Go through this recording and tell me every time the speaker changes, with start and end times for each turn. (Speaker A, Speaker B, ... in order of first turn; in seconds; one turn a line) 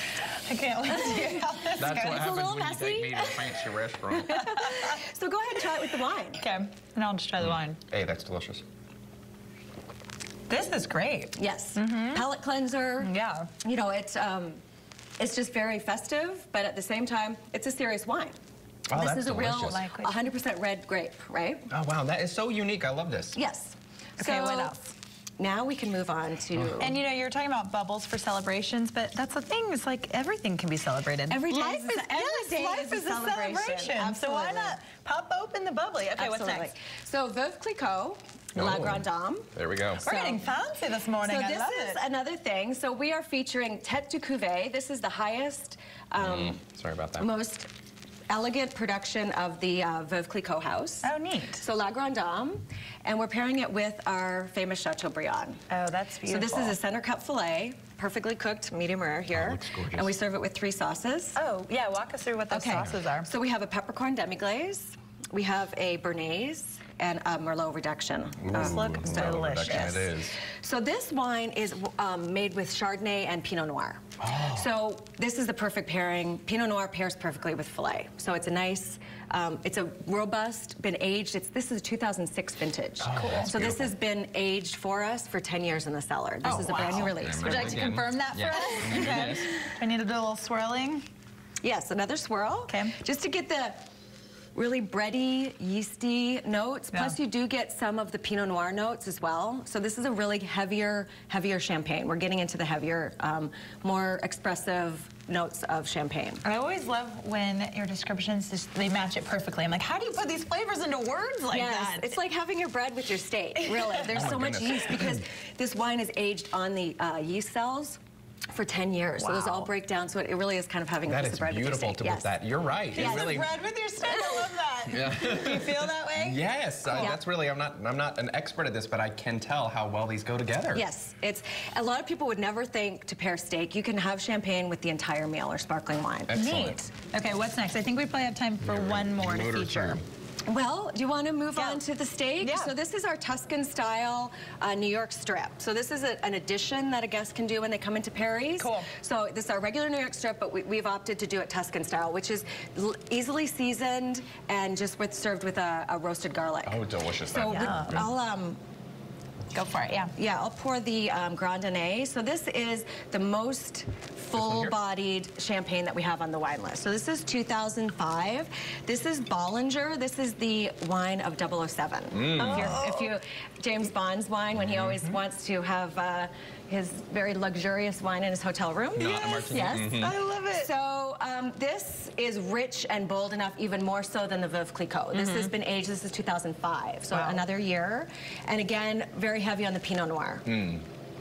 Speaker A: 0.2-2.3
Speaker B: 0.9-6.4
Speaker C: 1.8-4.4
Speaker A: 4.3-5.0
Speaker A: 6.3-7.8
Speaker C: 7.4-8.6
Speaker A: 10.5-12.3
Speaker B: 11.3-14.6
Speaker A: 13.0-13.5
Speaker B: 15.2-18.3
Speaker C: 18.9-19.8
Speaker B: 18.9-21.7
Speaker A: 19.5-20.2
Speaker C: 21.7-23.4
Speaker B: 23.3-24.8
Speaker A: 24.2-24.9
Speaker B: 25.4-26.9
Speaker C: 26.6-26.9
Speaker A: 26.8-36.7
Speaker B: 31.3-34.8
Speaker B: 36.1-40.5
Speaker C: 38.5-40.0
Speaker A: 40.0-42.0
Speaker B: 41.2-46.6
Speaker C: 46.2-47.3
Speaker B: 47.2-47.7
Speaker B: 48.3-55.6
Speaker A: 51.0-51.6
Speaker A: 55.7-56.8
Speaker B: 56.2-61.4
Speaker C: 59.3-60.1
Speaker A: 61.3-63.3
Speaker B: 62.5-89.5
Speaker C: 68.4-70.4
Speaker A: 68.5-70.0
Speaker C: 74.2-74.7
Speaker C: 83.0-83.9
Speaker A: 83.1-83.5
Speaker C: 86.4-89.5
Speaker A: 86.5-91.0
Speaker B: 91.6-93.8
Speaker A: 92.7-93.0
Speaker B: 94.5-106.4
Speaker A: 106.4-112.2
Speaker B: 111.5-118.0
Speaker A: 113.7-114.0
Speaker C: 114.1-115.2
Speaker B: 118.5-122.3
Speaker A: 119.2-119.7
Speaker C: 121.0-123.5
Speaker B: 122.9-123.4
Speaker A: 122.9-126.4
Speaker B: 124.0-124.5
Speaker C: 124.9-130.8
Speaker B: 126.8-127.2
Speaker B: 130.7-136.4
Speaker C: 136.3-136.8
Speaker A: 136.3-140.0
Speaker C: 138.6-140.0
Speaker B: 140.5-158.6
Speaker A: 141.6-141.8
Speaker A: 142.4-142.7
Speaker A: 148.6-148.9
Speaker C: 156.6-158.1
Speaker A: 157.5-158.1
Speaker A: 159.5-160.1
Speaker B: 160.2-190.5
Speaker C: 164.4-164.7
Speaker C: 172.1-172.8
Speaker A: 172.3-173.1
Speaker C: 174.6-175.0
Speaker C: 178.9-180.1
Speaker A: 179.0-180.7
Speaker A: 185.1-185.5
Speaker A: 187.1-187.4
Speaker C: 190.4-190.8